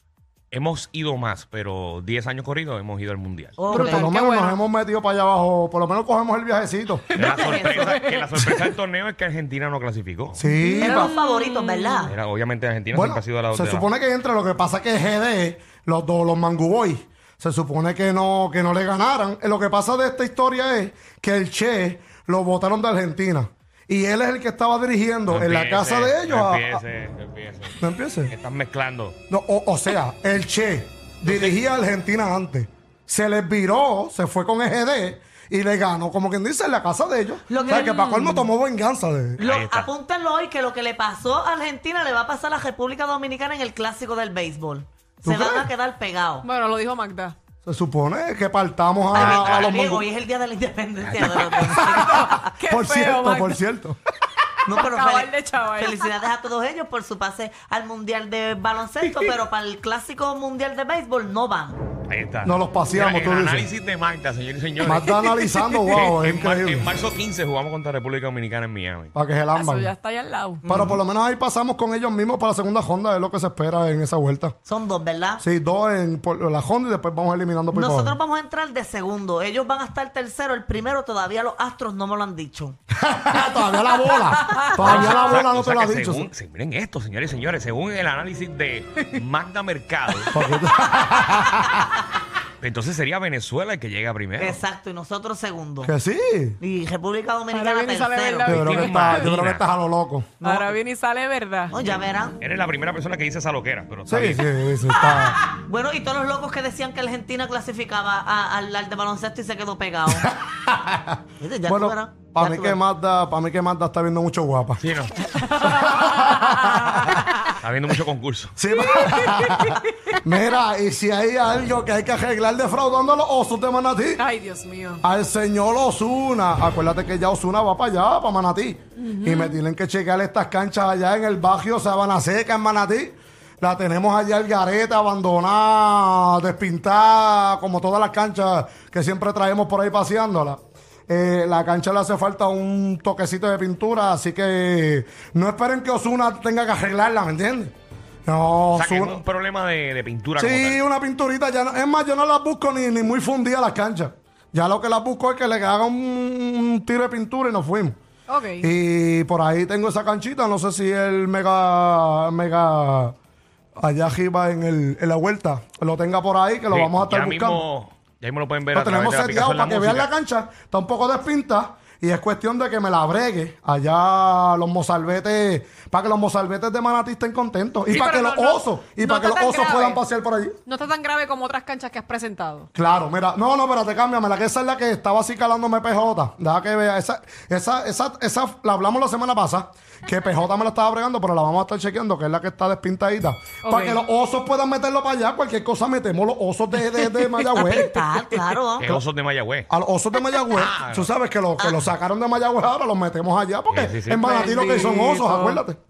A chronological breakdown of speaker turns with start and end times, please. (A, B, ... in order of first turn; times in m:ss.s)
0:00.5-0:03.7 A
0:03.6-0:04.0 B
0:03.7-0:04.6 C
0:03.7-0:07.1 D
0:07.1-0:08.2 C
0:07.2-0:10.4 A
0:07.4-0:07.9 B
0:10.3-0:11.1 D
0:10.7-0:12.0 C
0:10.8-0:12.2 B
0:12.1-0:13.9 A
0:12.9-0:26.8 D
0:25.3-0:29.2 A
0:27.8-0:28.3 D
0:29.3-0:39.4 D
0:31.2-0:31.6 A
0:37.5-0:38.5 B
0:37.6-0:37.9 C
0:39.4-0:46.4 B
0:39.4-0:39.9 A
0:45.2-0:45.7 D
0:46.4-0:47.4 C
0:47.7-0:50.0 D
0:49.1-0:49.8 A
0:49.1-0:52.5 B
0:51.0-0:51.4 A
0:51.7-0:54.0 D
0:51.7-0:53.6 C
0:54.7-1:01.8 B
0:54.7-0:56.1 C
0:59.0-0:59.3 C
1:02.1-1:05.2 A
1:02.4-1:03.7 D
1:04.8-1:06.9 D
1:05.9-1:09.1 A
1:09.1-1:09.9 D
1:09.5-1:10.6 C
1:10.7-1:14.6 D
1:10.7-1:11.0 B
1:14.7-1:15.4 B
1:15.4-1:18.2 D
1:17.7-1:22.8 B
1:23.0-1:26.3 D
1:24.7-1:30.3 A
1:30.3-1:31.9 D
1:32.6-1:34.6 A
1:34.4-1:35.9 B
1:35.8-1:36.6 D
1:36.6-1:38.6 B
1:37.5-1:39.3 C
1:38.5-1:40.3 D
1:38.5-1:39.6 A
1:40.4-1:41.8 C
1:40.4-1:40.7 B
1:41.7-1:42.4 B
1:42.4-1:44.5 A
1:44.1-1:45.4 D
1:45.5-1:50.3 B
1:50.1-1:54.8 D
1:51.4-1:52.8 B
1:54.8-1:55.3 A
1:55.4-1:57.5 C
1:55.6-1:57.2 D
1:57.6-1:58.6 A
1:58.6-2:04.2 D
1:58.8-1:59.8 C
2:04.2-2:05.0 C
2:05.0-2:27.7 D
2:09.0-2:09.6 C
2:28.2-2:29.2 D
2:28.7-2:30.8 A
2:30.4-2:38.0 D
2:38.3-2:38.7 C
2:38.6-2:43.2 D
2:43.8-2:47.6 D
2:46.7-2:50.1 A
2:48.7-3:00.6 D
2:57.9-3:00.0 C
3:00.7-3:02.7 C
3:02.7-3:17.9 D
3:13.6-3:14.0 C
3:17.0-3:18.6 C
3:17.6-3:19.0 B
3:18.8-3:19.7 A
3:19.7-3:25.8 D
3:20.5-3:21.1 A
3:21.6-3:21.9 B
3:23.7-3:24.3 A
3:24.3-3:25.6 C